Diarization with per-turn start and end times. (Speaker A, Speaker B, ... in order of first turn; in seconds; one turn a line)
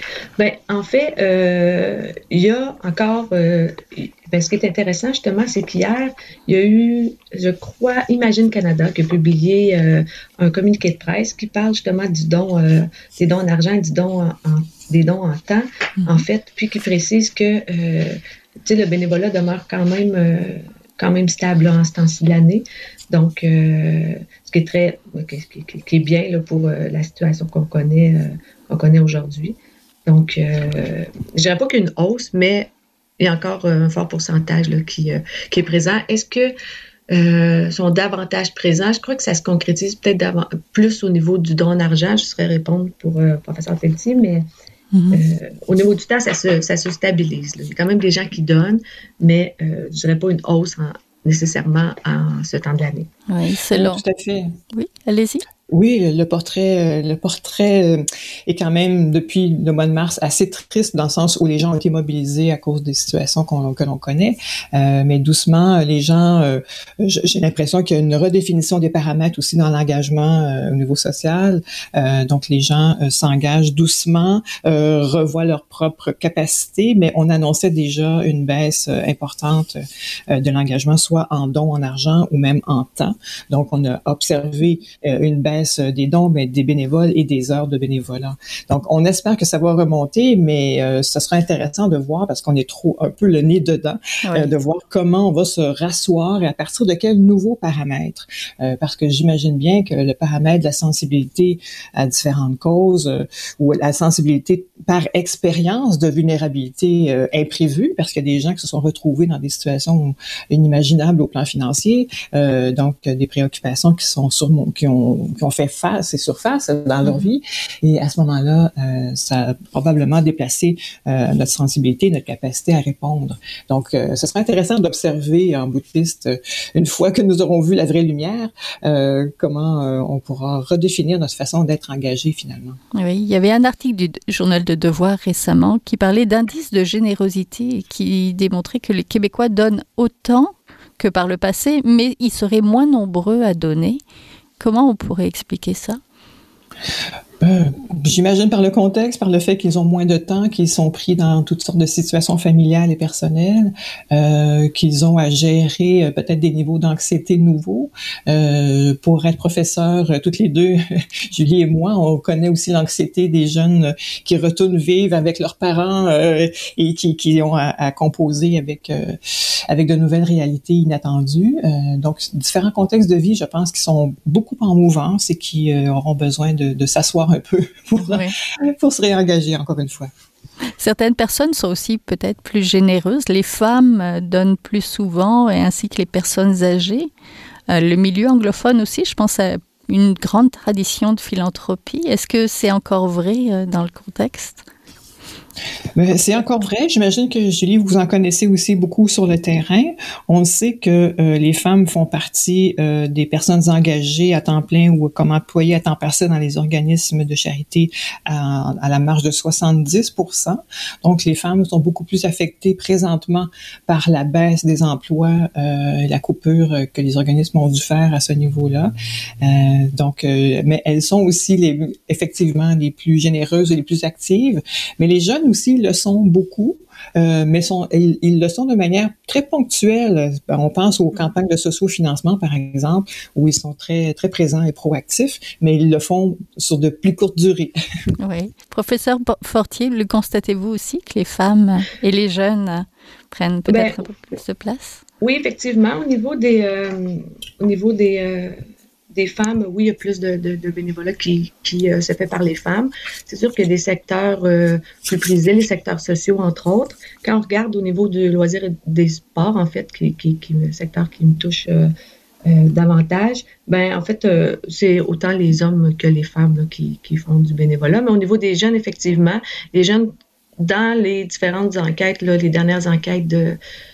Speaker A: 0.4-36.5
Speaker A: 37.1-44.5
Speaker B: 44.9-45.2
Speaker A: 45.1-53.1
Speaker B: 53.3-54.0
Speaker C: 53.7-54.6
Speaker B: 54.7-55.4
Speaker C: 55.7-79.8
Speaker C: 80.3-132.8
Speaker B: 94.2-94.5
Speaker B: 132.9-144.0
Speaker B: 144.6-146.0
Speaker C: 147.4-180.1
Speaker B: 178.0-178.4
Speaker B: 180.8-187.1
Speaker B: 187.7-194.7
Speaker C: 196.0-237.7
Speaker B: 238.2-245.0
Speaker A: 243.7-244.0
Speaker A: 245.2-248.6
Speaker A: 249.1-261.9
Speaker A: 262.5-273.6